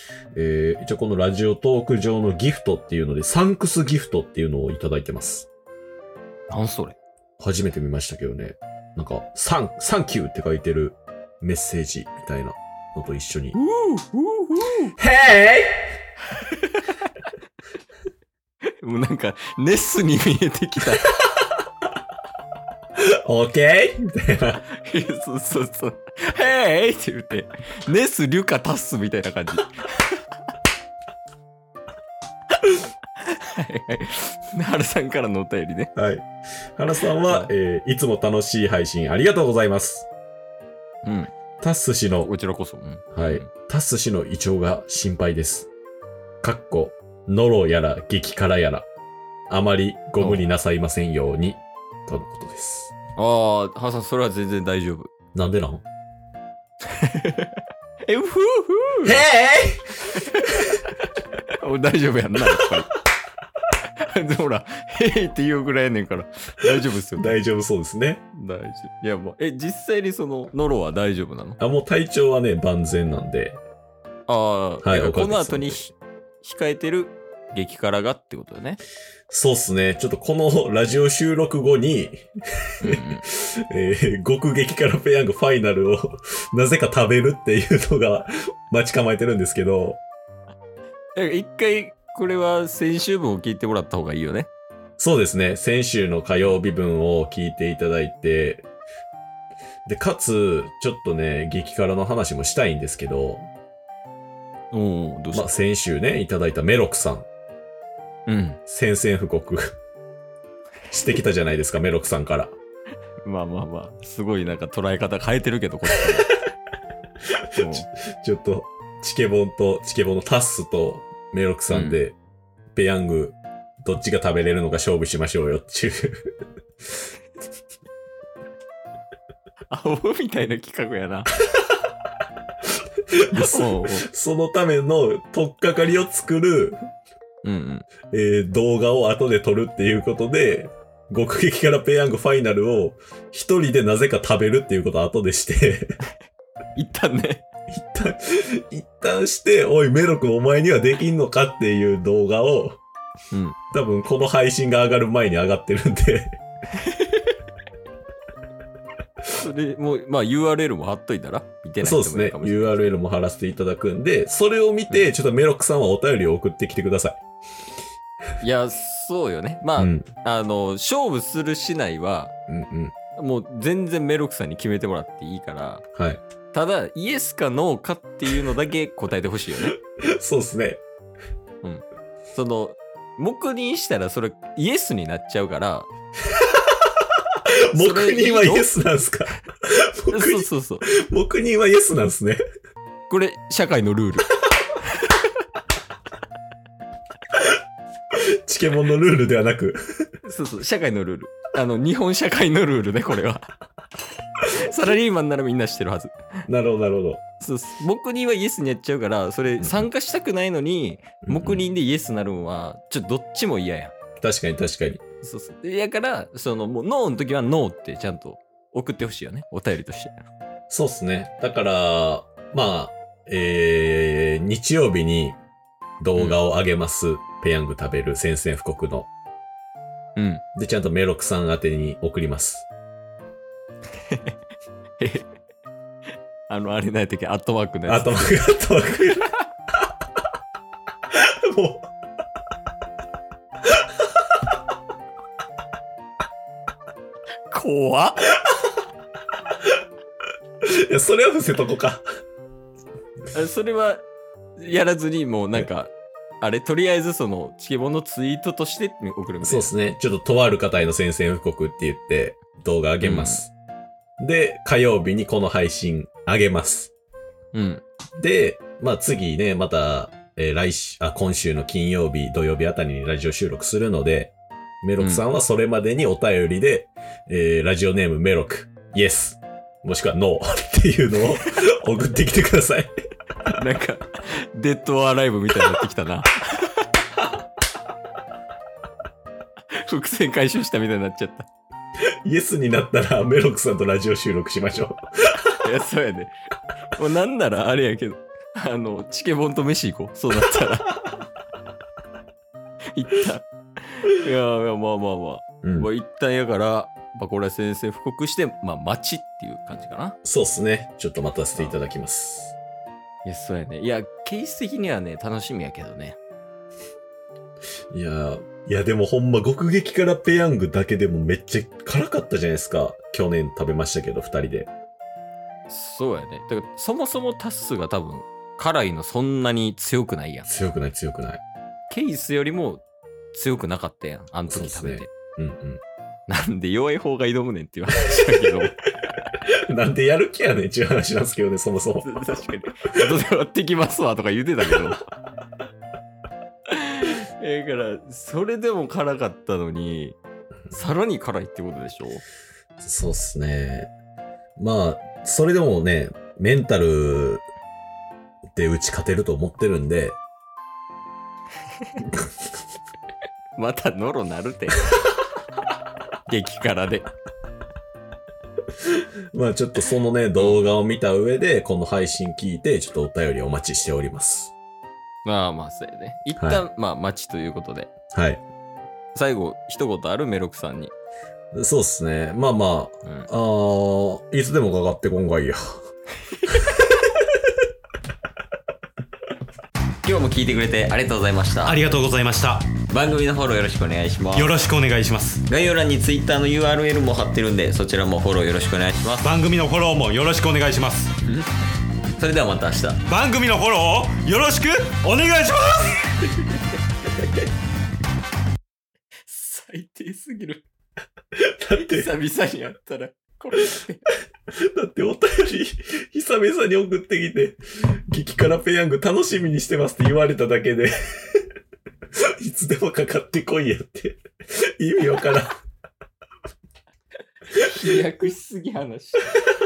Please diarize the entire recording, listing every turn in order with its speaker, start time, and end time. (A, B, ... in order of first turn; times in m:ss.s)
0:00.4-0:05.5 A
0:06.5-0:07.0 B
0:07.4-0:13.6 A
0:13.5-0:14.9 B
0:15.0-0:16.0 A
0:16.3-0:17.3 B
0:18.8-0:21.2 B
0:23.0-0:24.6 A
0:24.7-0:30.2 B
0:32.6-0:35.9 B
0:36.0-0:40.1 A
0:37.2-0:37.5 B
0:41.0-0:41.3 B
0:41.6-0:42.3 A
0:42.2-0:43.5 B
0:43.1-0:45.7 A
0:46.4-0:48.9 A
0:49.5-0:52.9 A
0:50.2-0:50.4 B
0:53.2-0:55.1 B
0:55.3-0:55.8 A
0:56.9-0:59.2 B
0:59.0-1:00.8 A
1:00.1-1:02.9 B
1:04.0-1:07.4 B
1:06.7-1:08.2 A
1:08.3-1:11.6 B
1:11.6-1:13.6 A
1:14.3-1:18.8 B
1:14.8-1:15.8 A
1:19.3-1:30.0 A
1:22.8-1:23.2 B
1:31.2-1:34.5 B
1:35.0-1:38.7 A
1:39.9-1:43.5 A
1:44.7-1:45.5 B
1:45.3-1:47.3 A
1:48.3-1:48.6 B
1:48.7-1:49.8 A
1:50.9-1:52.5 A
1:53.2-1:56.3 B
1:57.5-2:02.2 A
1:57.6-1:57.9 B
2:01.7-2:02.0 B
2:02.8-2:06.3 A
2:09.7-2:11.3 B
2:13.2-2:16.8 A
2:13.3-2:14.1 B
2:17.4-2:17.9 B
2:18.1-2:26.0 A
2:26.8-2:27.4 B
2:27.7-2:32.8 A
2:33.3-2:33.6 B
2:33.7-2:36.4 A
2:36.8-2:37.3 B
2:39.2-2:42.9 B
2:41.8-2:47.2 A
2:48.4-2:52.3 B
2:49.8-2:50.1 A
2:52.5-2:53.0 A
2:53.2-2:55.8 B
2:56.0-2:56.2 A
2:56.5-2:59.8 B
2:59.6-3:00.8 A
3:01.6-3:05.9 B
3:06.4-3:06.6 A
3:07.6-3:12.4 A
3:07.7-3:08.7 B
3:10.1-3:10.9 B
3:13.1-3:14.3 B
3:18.1-3:20.1 A
3:20.2-3:23.4 B
3:24.4-3:26.2 B
3:26.5-3:27.2 A
3:27.4-3:33.9 B
3:29.6-3:29.9 A
3:31.2-3:31.7 A
3:34.2-3:35.0 A
3:35.2-3:40.3 B
3:40.7-3:45.4 A
3:46.0-3:49.1 A
3:50.2-3:50.4 B
3:50.6-3:52.7 A
3:54.1-3:54.4 B
3:55.0-3:55.3 B
3:56.5-3:58.3 B
3:57.9-3:59.3 A
4:01.1-4:01.9 A
4:07.5-4:08.3 B
4:10.6-4:12.0 A
4:13.3-4:14.0 B
4:14.6-4:19.7 B
4:19.4-4:23.5 A
4:23.0-4:23.4 B
4:24.2-4:26.9 A
4:27.5-4:27.8 B
4:28.2-4:42.9 A
4:35.0-4:35.2 B
4:43.6-4:46.9 B
4:49.7-4:51.5 B
4:52.2-4:55.6 A
4:55.6-4:56.3 B
4:57.0-5:01.0 B
5:03.0-5:10.2 B
5:05.6-5:05.9 A
5:10.2-5:12.6 A
5:13.2-5:16.2 B
5:17.9-5:24.7 A
5:25.7-5:30.5 B
5:30.5-5:31.4 A
5:31.9-5:35.1 B
5:34.5-5:35.8 A
5:36.3-5:38.8 B
5:38.1-5:38.6 A
5:39.5-5:42.1 A
5:42.0-5:45.0 B
5:46.7-5:50.2 B
5:50.7-5:52.2 B
5:52.8-5:53.9 A
5:54.6-5:57.4 A
5:58.6-6:00.2 A
6:03.6-6:04.9 B
6:06.3-6:07.1 B
6:08.9-6:14.5 A
6:10.4-6:10.6 B
6:15.2-6:17.9 B
6:16.4-6:16.6 A
6:18.1-6:18.4 A
6:19.2-6:20.9 B
6:21.5-6:25.8 A
6:26.4-6:26.7 B
6:30.0-6:31.8 B
6:31.6-6:32.7 C
6:32.9-6:34.6 B
6:34.3-6:35.4 C
6:35.5-6:39.3 B
6:39.2-6:41.1 C
6:42.2-6:43.0 B
6:43.1-6:46.1 C
6:46.4-6:46.7 B
6:49.3-6:50.6 B
6:51.4-6:52.1 A
6:51.7-6:54.1 B
6:54.5-7:01.4 A
7:02.2-7:05.6 A
7:07.6-7:09.4 B